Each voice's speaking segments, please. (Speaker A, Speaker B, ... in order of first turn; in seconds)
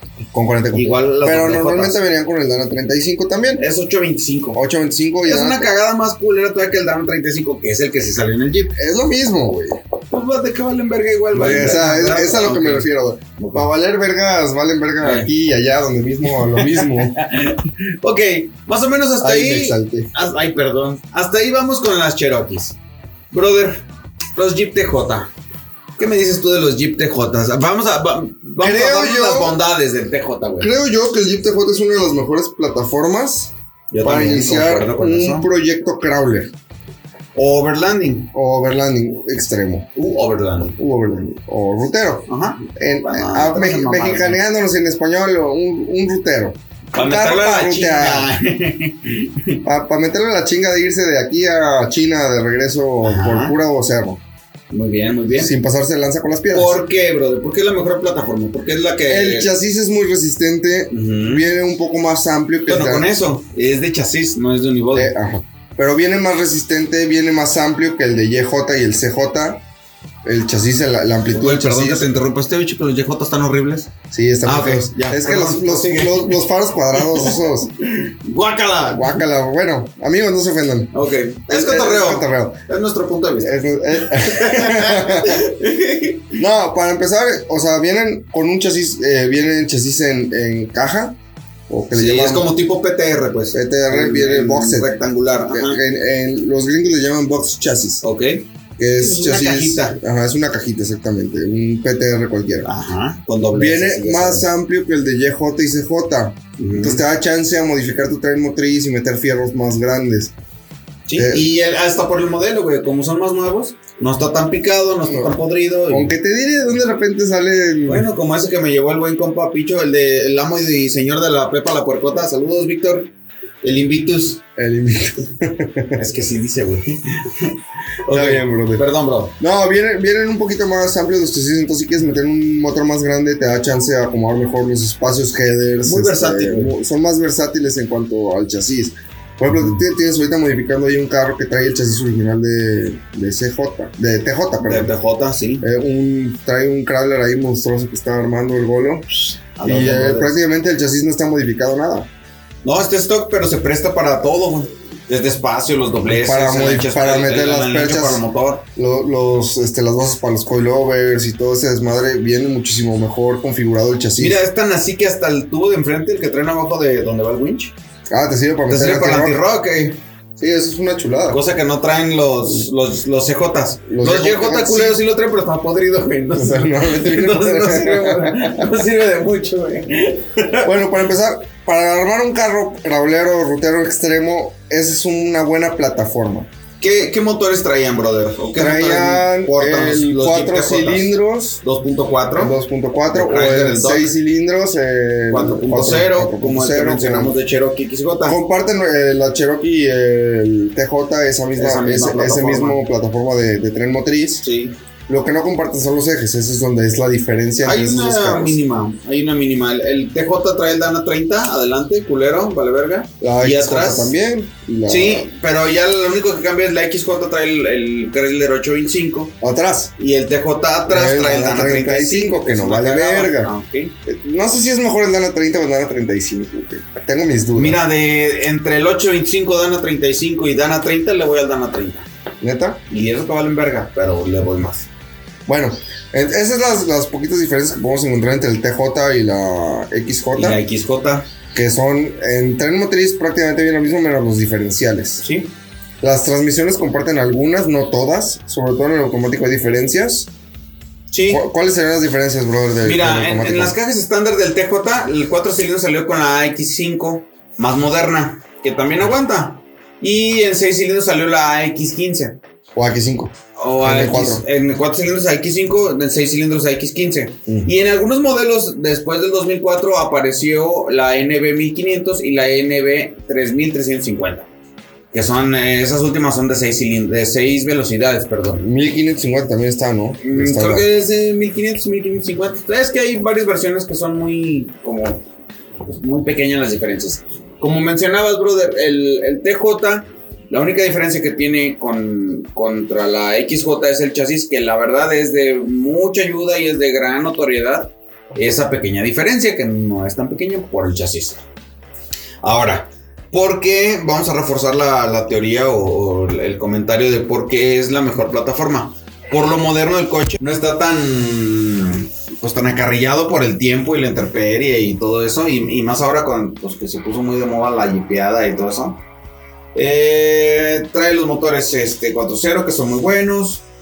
Speaker A: 0.3-3.6, 4.5-5.7, 8.8-9.8, 11.3-17.2, 19.2-20.1, 28.6-29.6, 30.6-36.5, 38.3-39.9, 40.8-48.3, 49.6-54.2, 55.3-56.8, 59.1-63.1, 64.9-69.6, 70.2-72.1, 74.1-77.7, 78.9-80.9, 81.5-82.6, 83.4-85.5, 86.4-91.2, 91.7-92.5, 93.5-95.0, 95.5-98.0, 98.8-102.7, 103.5-110.3, 111.2-111.5, 115.1-115.4, 115.9-118.1, 124.6-126.0, 128.1-128.8, 129.4-144.9, 145.6-149.1, 149.6-152.1, 156.1-158.2, 158.8-164.4, 168.1-169.4, 170.4-171.4, 173.9-175.0, 176.3-178.7, 180.6-186.5, 188.6-191.6, 192.3-197.4, 198.3-204.4, 205.1-208.6, 213.2-215.3, 219.4-219.9, 220.9-223.5, 224.1-227.8, 232.4-232.8, 235.5-240.6, 241.5-245.2, 246.0-250.3, 251.3-253.8, 262.8-264.4, 278.6-280.9
Speaker B: 0.7-2.0, 3.6-4.6, 5.2-8.8, 10.1-13.7, 15.0-15.3, 16.3-22.8, 23.3-23.9, 24.4-25.3, 26.0-30.7, 33.9-35.5, 37.4-38.3, 40.0-40.8, 42.3-44.4, 46.9-49.6, 53.0-53.6, 54.7-55.5, 56.5-59.5, 60.9-61.5, 62.7-65.1, 71.3-73.9, 74.4-76.4, 76.9-79.2, 80.9-86.4, 91.9-95.8, 98.0-98.5, 99.0-100.0, 102.6-104.5, 106.6-107.0, 111.1-116.1, 117.9-123.1, 123.6-124.4, 126.0-129.3, 135.8-136.8, 144.6-145.7, 149.6-150.4, 152.6-158.7, 164.2-167.8, 168.7-170.0, 171.3-180.7, 186.8-192.6, 193.1-194.1, 195.3-198.4, 201.6-202.8, 204.4-204.8, 207.6-214.1, 214.9-219.3, 220.0-223.9, 227.6-232.1, 232.9-234.9, 240.3-241.3, 245.2-245.5, 251.1-251.4, 252.8-262.4, 263.6-274.5, 275.1-278.6, 280.2-285.2, 285.9-301.4, 302.4-319.0, 319.8-323.6